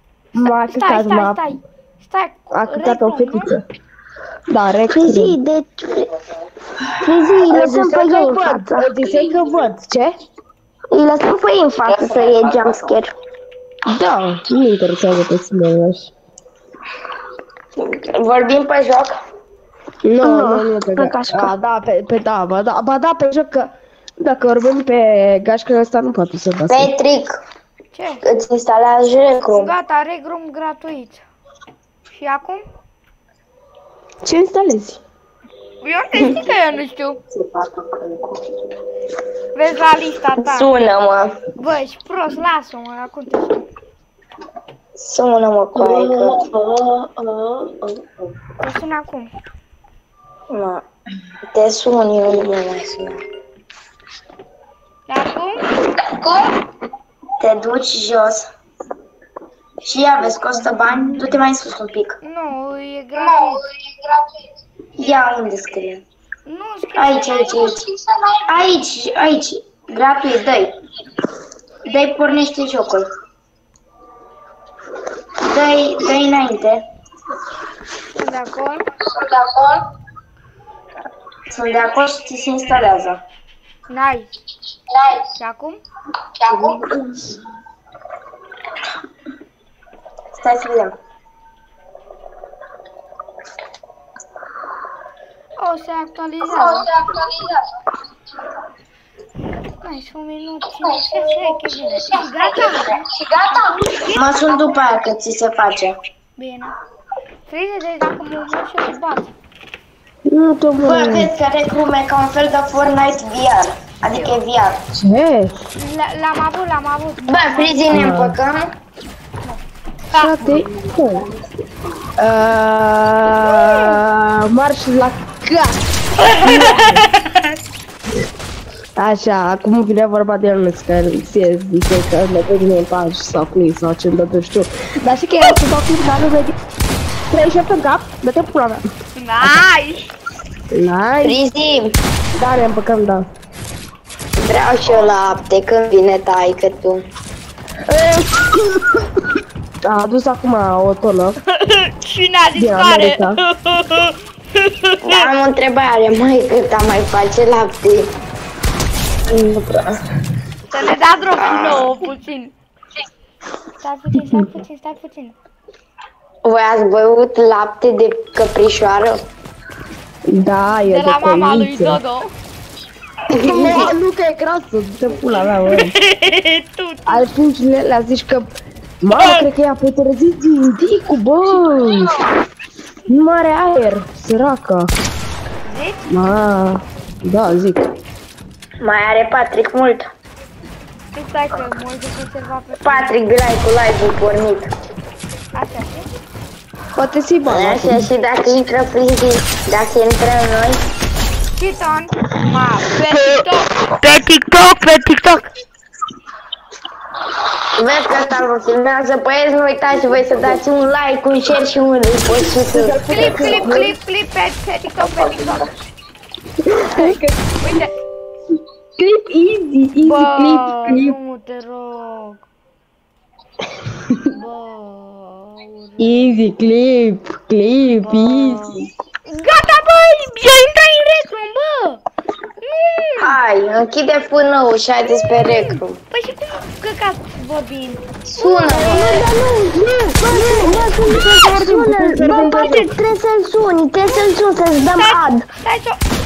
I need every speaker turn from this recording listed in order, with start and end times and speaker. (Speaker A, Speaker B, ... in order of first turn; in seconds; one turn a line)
Speaker A: 0.3-1.4
Speaker B: 0.5-3.5
Speaker A: 2.5-3.6
Speaker A: 4.5-5.4
Speaker C: 4.9-6.1
Speaker C: 7.0-8.9
Speaker A: 7.5-10.1
Speaker C: 10.9-13.1
Speaker A: 13.9-16.1
Speaker D: 17.8-19.2
Speaker A: 20.0-26.9
Speaker C: 20.2-21.5
Speaker D: 26.7-27.4
Speaker B: 27.9-28.2
Speaker D: 28.2-29.7
Speaker B: 29.5-31.2
Speaker B: 32.1-32.6
Speaker A: 34.2-35.0
Speaker B: 35.8-37.2
Speaker D: 37.3-38.4
Speaker B: 39.5-40.7
Speaker D: 40.4-41.4
Speaker B: 41.6-43.7
Speaker D: 45.0-48.0
Speaker A: 45.8-46.3
Speaker B: 48.6-49.3
Speaker D: 50.5-50.8
Speaker D: 51.5-53.2
Speaker B: 55.1-55.6
Speaker D: 56.0-56.3
Speaker D: 57.4-58.5
Speaker D: 59.8-62.2
Speaker B: 62.2-63.7
Speaker D: 65.0-66.0
Speaker B: 66.5-67.8
Speaker D: 66.9-67.9
Speaker D: 68.4-70.8
Speaker D: 71.8-73.1
Speaker D: 75.4-76.8
Speaker B: 78.2-78.8
Speaker D: 79.1-79.8
Speaker D: 81.5-83.2
Speaker B: 83.9-84.3
Speaker B: 85.4-85.8
Speaker D: 86.4-87.2
Speaker D: 90.4-91.0
Speaker B: 95.6-96.9
Speaker D: 96.5-97.5
Speaker B: 99.8-104.2
Speaker D: 104.0-106.0
Speaker B: 106.4-106.8
Speaker B: 107.5-109.3
Speaker A: 110.3-111.3
Speaker D: 110.8-114.8
Speaker B: 114.0-114.4
Speaker A: 114.9-115.5
Speaker B: 115.8-118.2
Speaker D: 117.3-118.7
Speaker A: 117.9-118.4
Speaker B: 120.1-120.5
Speaker A: 120.1-121.3
Speaker A: 122.2-125.8
Speaker B: 123.3-124.0
Speaker B: 126.2-127.5
Speaker A: 126.3-127.1
Speaker A: 129.0-136.6
Speaker A: 137.3-138.8
Speaker B: 139.2-140.1
Speaker A: 140.7-141.4
Speaker D: 141.2-142.0
Speaker A: 142.4-143.3
Speaker D: 144.4-147.0
Speaker A: 147.9-149.1
Speaker A: 149.8-151.4
Speaker B: 151.5-155.3
Speaker A: 152.6-153.4
Speaker D: 155.0-158.1
Speaker A: 159.3-160.0
Speaker B: 160.7-162.5
Speaker D: 161.3-161.9
Speaker B: 163.8-165.3
Speaker D: 166.4-169.2
Speaker A: 170.3-172.0
Speaker B: 170.9-172.3
Speaker D: 173.3-173.9
Speaker A: 173.3-175.9
Speaker B: 175.7-177.3
Speaker A: 177.1-178.5
Speaker A: 179.0-182.2
Speaker B: 179.1-179.4
Speaker A: 183.1-184.9
Speaker B: 185.7-186.1
Speaker A: 186.1-187.9
Speaker D: 188.8-190.1
Speaker B: 191.1-193.2
Speaker D: 192.8-194.7
Speaker B: 195.6-196.1
Speaker A: 197.0-198.1
Speaker D: 197.5-200.8
Speaker B: 201.6-205.5
Speaker D: 207.8-213.0
Speaker A: 212.6-213.9
Speaker B: 213.1-215.7
Speaker A: 216.7-217.8
Speaker B: 216.9-217.9
Speaker A: 219.0-221.2
Speaker B: 220.0-222.4
Speaker A: 223.9-224.2
Speaker B: 224.3-226.3
Speaker A: 226.0-228.9
Speaker B: 228.0-232.0
Speaker B: 232.6-233.4
Speaker D: 233.2-236.0
Speaker B: 235.3-239.3
Speaker D: 238.3-239.3
Speaker C: 238.7-245.5
Speaker B: 240.4-240.7
Speaker A: 240.8-242.9
Speaker B: 242.4-242.7
Speaker B: 244.9-246.0